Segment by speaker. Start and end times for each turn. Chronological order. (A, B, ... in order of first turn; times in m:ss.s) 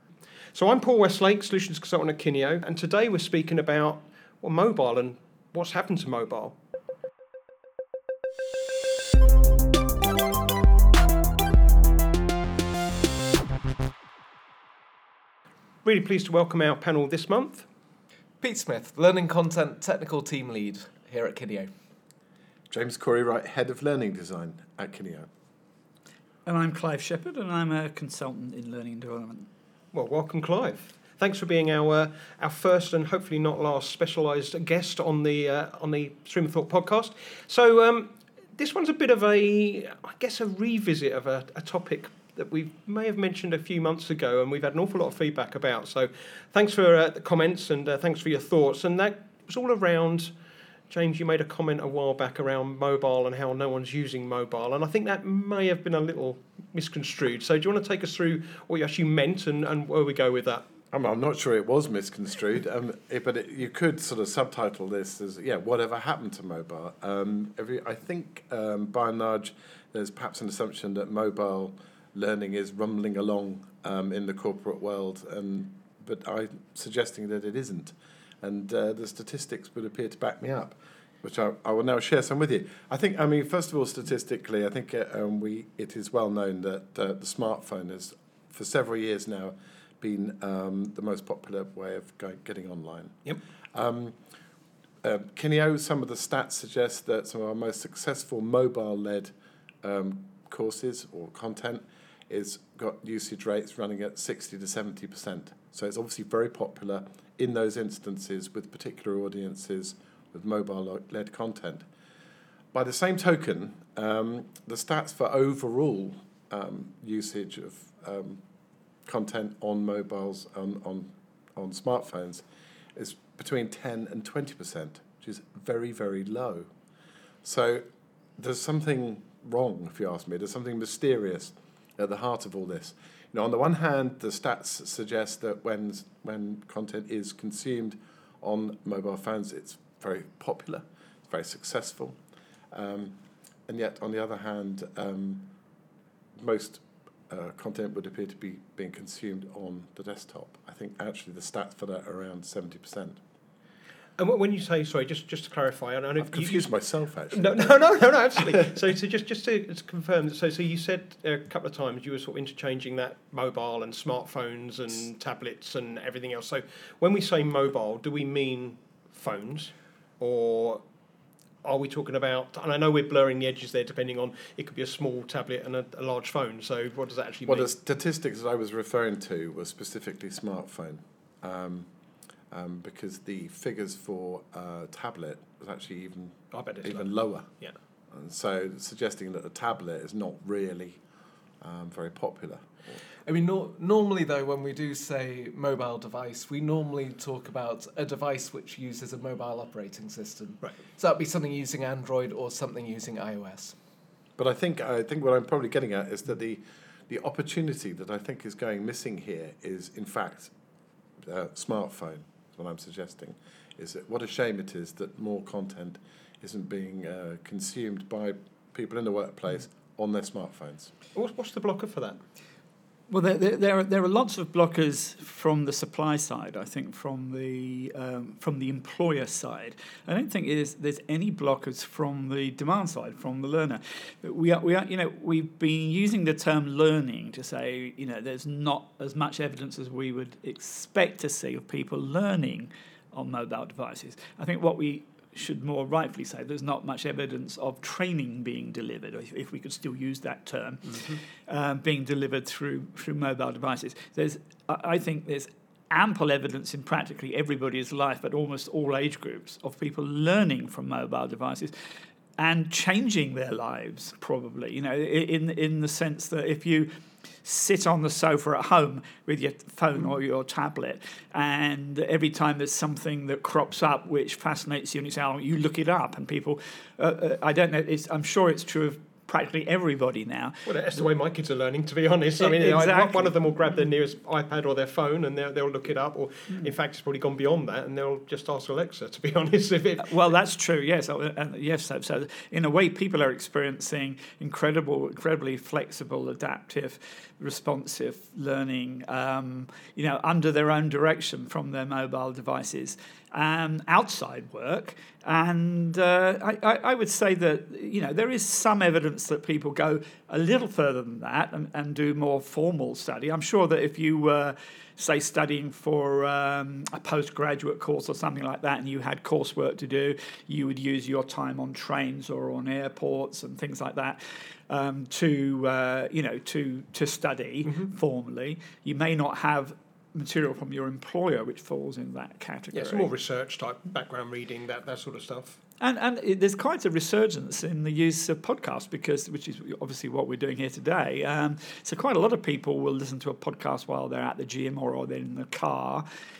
0:00.5-0:06.6 A
0:15.8-0:17.7 A
0:18.4-0:21.7 B
0:22.7-0:25.3 C
0:26.5-0:29.5 D
0:29.9-0:50.3 A
0:50.9-1:00.7 A
1:00.9-1:33.2 C
1:33.7-1:34.2 C
1:35.0-1:51.9 C
1:52.7-1:58.4 C
1:59.0-2:02.4 C
2:03.0-2:06.7 C
2:07.4-2:07.8 C
2:08.4-2:22.2 C
2:22.7-2:25.5 C
2:26.4-2:33.2 C
2:34.2-2:36.7 A
2:36.2-2:37.8 C
2:37.3-2:50.8 A
2:51.6-2:57.7 A
2:57.5-3:01.9 C
3:02.5-3:07.5 C
3:06.5-3:07.8 A
3:08.1-3:11.0 C
3:11.6-3:13.0 C
3:13.2-3:23.8 B
3:24.4-3:30.5 C
3:31.2-3:40.9 C
3:41.1-3:42.2 A
3:43.1-4:21.7 D
4:10.9-4:11.2 A
4:22.4-4:26.9 D
4:27.4-4:40.7 D
4:40.7-4:50.3 A
4:42.4-4:43.3 D
4:50.0-5:33.1 D
5:27.6-5:27.9 A
5:32.7-5:35.6 A
5:35.8-5:46.0 D